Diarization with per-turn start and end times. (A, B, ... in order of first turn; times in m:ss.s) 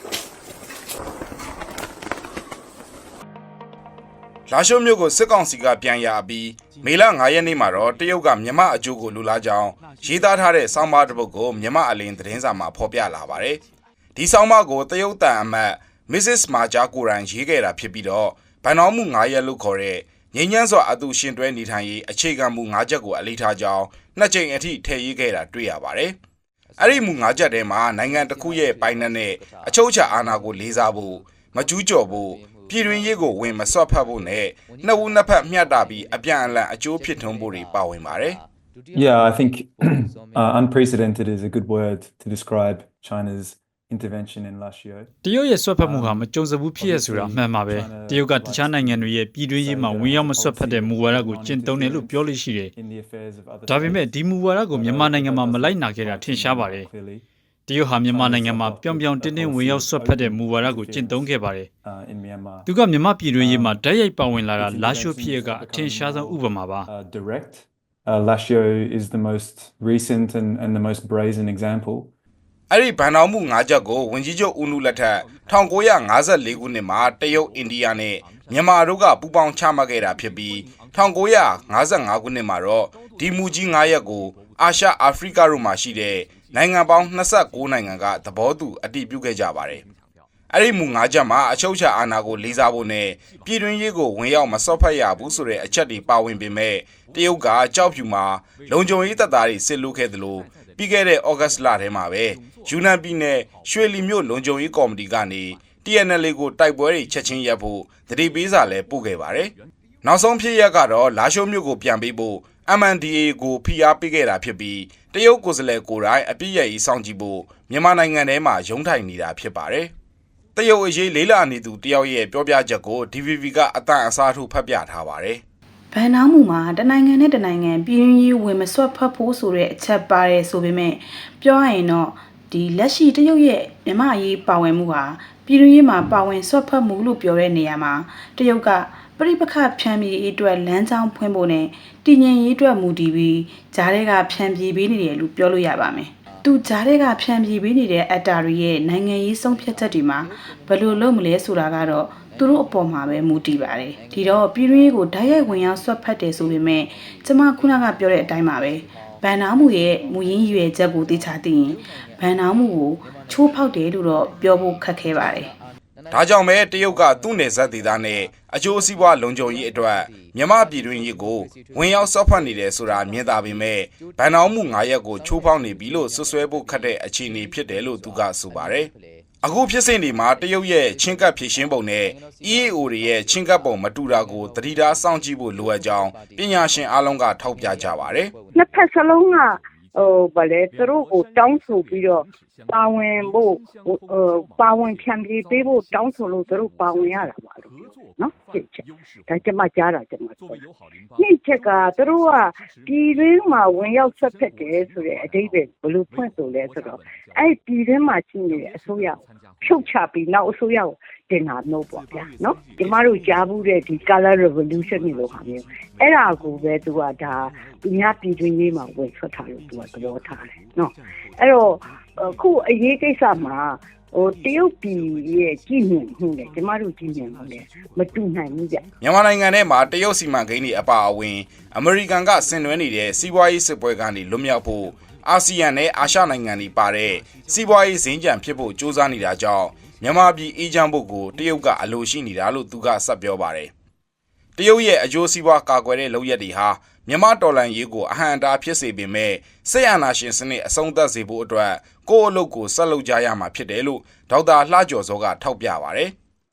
0:04.5-0:13.6 A
0:14.2-0:26.2 A
0:26.8-0:38.4 A
0:38.9-0:45.1 B
0:45.2-0:52.7 C
0:45.8-0:46.2 B
0:46.8-0:54.1 B
0:53.7-0:56.9 C
0:54.7-0:57.2 B
0:57.7-1:01.7 C
0:58.1-1:01.3 B
1:01.8-1:02.7 B
1:02.7-1:06.9 C
1:03.4-1:03.8 B
1:04.6-1:12.1 B
1:12.7-1:29.8 A
1:30.5-1:59.9 A
2:00.6-2:05.4 A
2:05.9-2:45.5 D
2:46.1-2:58.9 A
2:59.4-3:08.3 A
3:08.5-3:20.6 E
3:21.2-3:48.8 E
3:49.0-4:03.7 A
4:04.6-4:16.1 A